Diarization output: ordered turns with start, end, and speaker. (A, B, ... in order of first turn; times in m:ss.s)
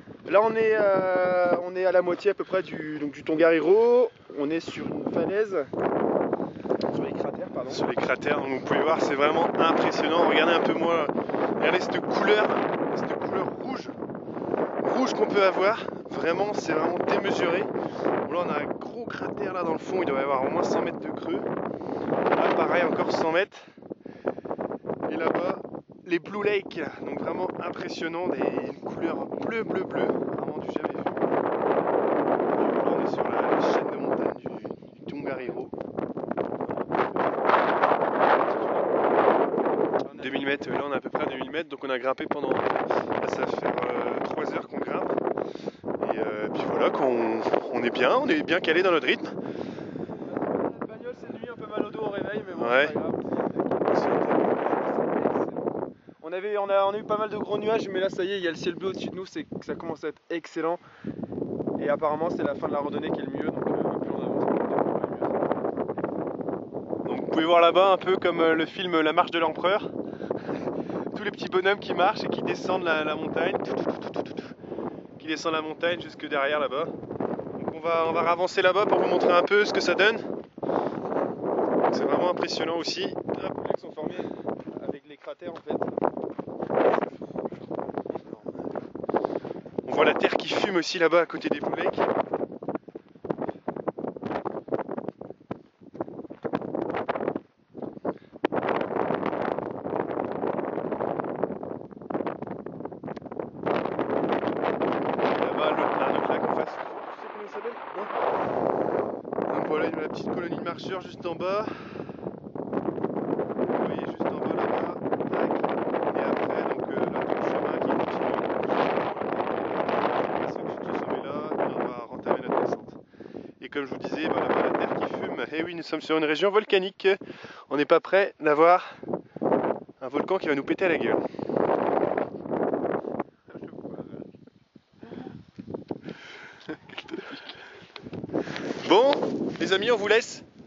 0:00.2-0:05.7 A
0:06.9-0:07.8 A
0:07.7-0:14.0 B
0:14.8-0:17.7 B
0:18.2-0:21.5 B
0:22.3-0:23.6 B
0:25.1-0:31.4 B
0:32.4-0:35.7 B
0:36.7-0:40.8 A
0:40.2-0:45.2 B
0:46.0-0:49.4 B
0:50.2-0:55.7 A
0:52.5-0:53.0 B
0:53.9-0:54.6 B
0:56.2-1:00.8 A
1:01.8-1:05.6 A
1:07.0-1:09.9 B
1:11.1-1:14.5 B
1:15.2-1:16.9 B
1:17.6-1:20.3 B
1:21.8-1:23.3 B
1:23.3-1:25.9 A
1:28.1-1:28.6 A
1:29.8-1:32.1 B
1:45.3-1:48.1 B
1:49.5-1:52.1 B
1:53.7-2:03.0 B
2:03.6-2:08.8 B
2:10.0-2:11.2 B
2:13.5-2:14.2 A
2:16.7-2:17.5 B
2:18.8-2:20.4 B